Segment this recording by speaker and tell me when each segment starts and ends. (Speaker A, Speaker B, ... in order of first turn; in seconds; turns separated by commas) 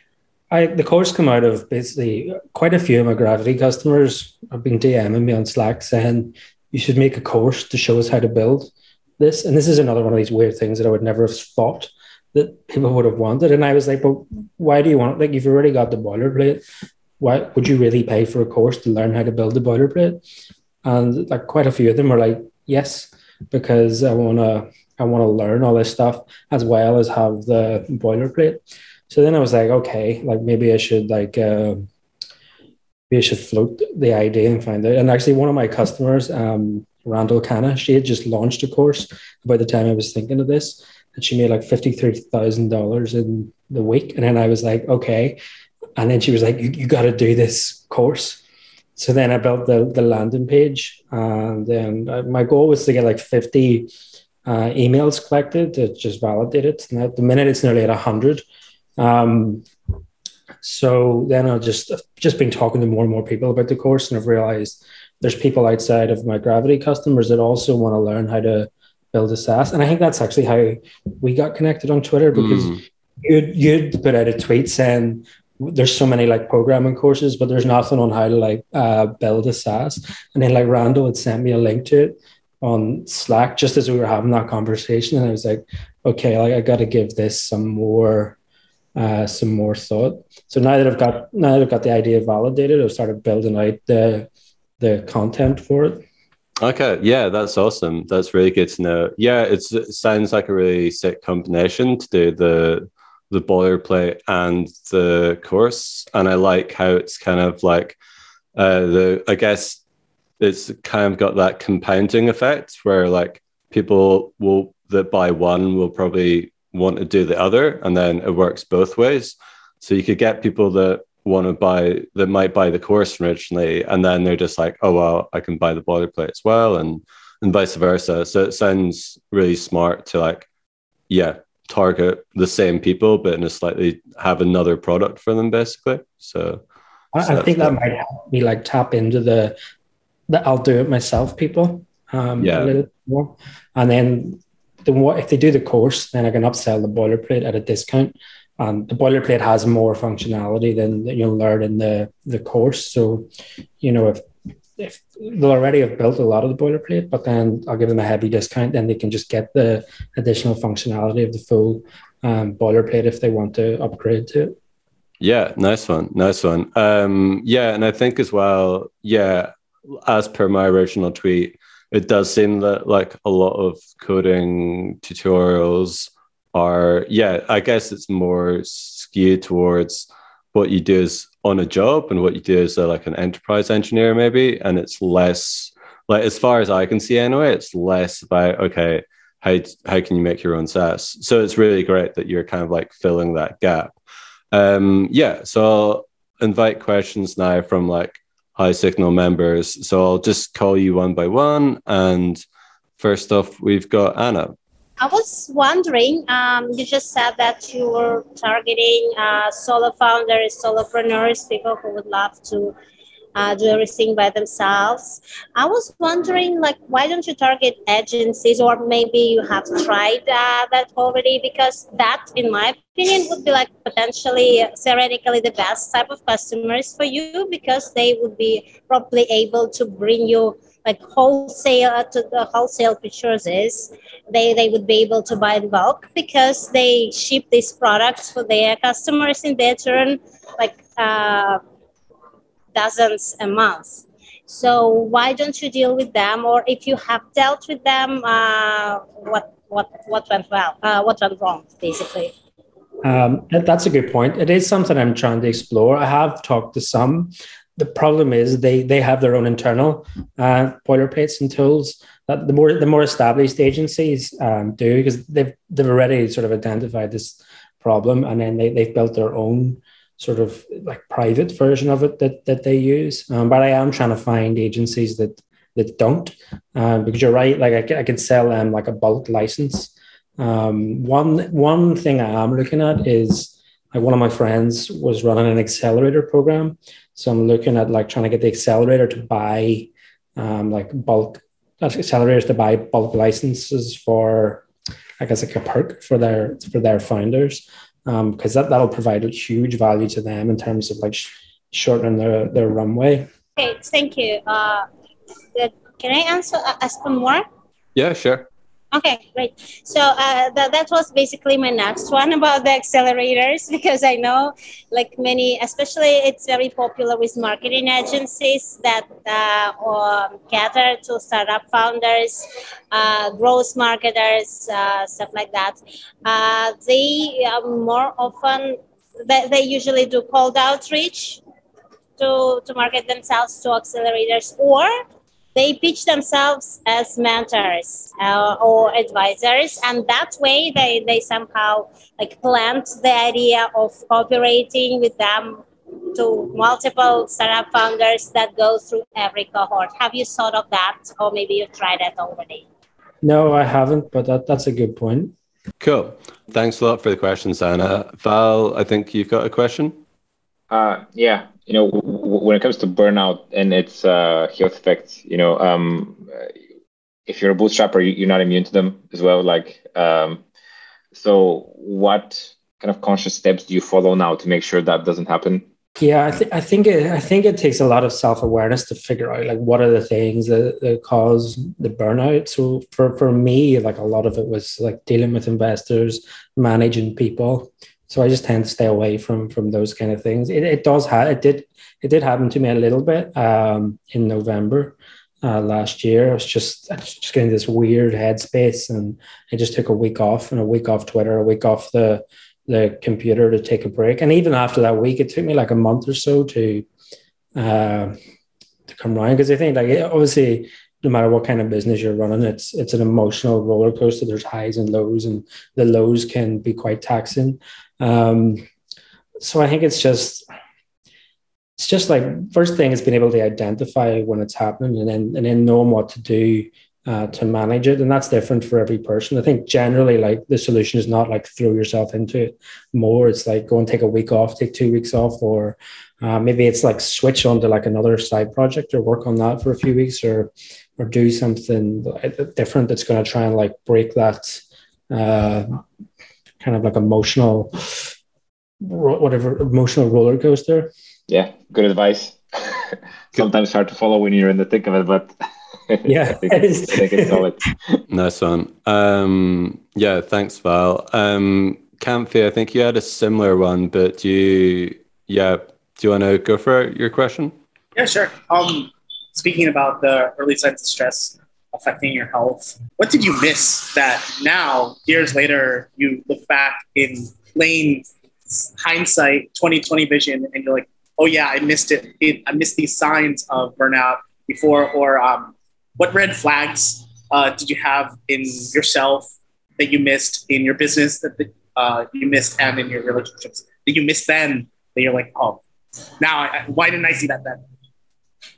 Speaker A: 0.5-16.6, Speaker A: 17.2-20.2, Speaker A: 20.8-31.9, Speaker A: 33.1-45.4, Speaker A: 46.0-48.4, Speaker A: 49.0-53.9, Speaker A: 54.5-58.4, Speaker A: 59.0-59.6, Speaker A: 60.6-88.4, Speaker B: 72.3-72.8, Speaker A: 89.0-94.3, Speaker A: 94.8-96.0, Speaker B: 96.6-108.0, Speaker B: 108.6-109.8, Speaker B: 110.4-130.5, Speaker B: 131.1-136.6, Speaker A: 137.1-139.5, Speaker B: 137.2-137.7, Speaker A: 140.3-153.3, Speaker B: 142.4-142.8, Speaker A: 153.8-154.2, Speaker A: 154.8-164.6, Speaker B: 165.2-193.9, Speaker B: 194.5-202.4, Speaker B: 203.0-204.6, Speaker C: 205.0-212.7, Speaker C: 213.3-241.6, Speaker C: 242.7-252.3, Speaker A: 253.0-294.6, Speaker A: 295.2-303.3, Speaker C: 303.6-304.9, Speaker C: 305.6-307.4, Speaker B: 307.9-308.5, Speaker C: 308.9-331.4, Speaker C: 332.2-334.9, Speaker C: 335.6-352.7, Speaker A: 353.2-355.3, Speaker B: 355.8-360.0, Speaker D: 360.7-366.5, Speaker D: 367.3-370.4, Speaker D: 371.1-375.6, Speaker A: 376.0-406.9, Speaker A: 407.6-408.2, Speaker A: 408.9-418.6, Speaker A: 419.4-420.5, Speaker A: 421.8-445.8, Speaker A: 446.6-448.1, Speaker A: 448.8-450.9, Speaker D: 451.3-455.3, Speaker D: 455.9-458.0, Speaker A: 456.1-457.4, Speaker B: 458.1-467.5, Speaker E: 468.0-495.6, Speaker E: 496.2-497.6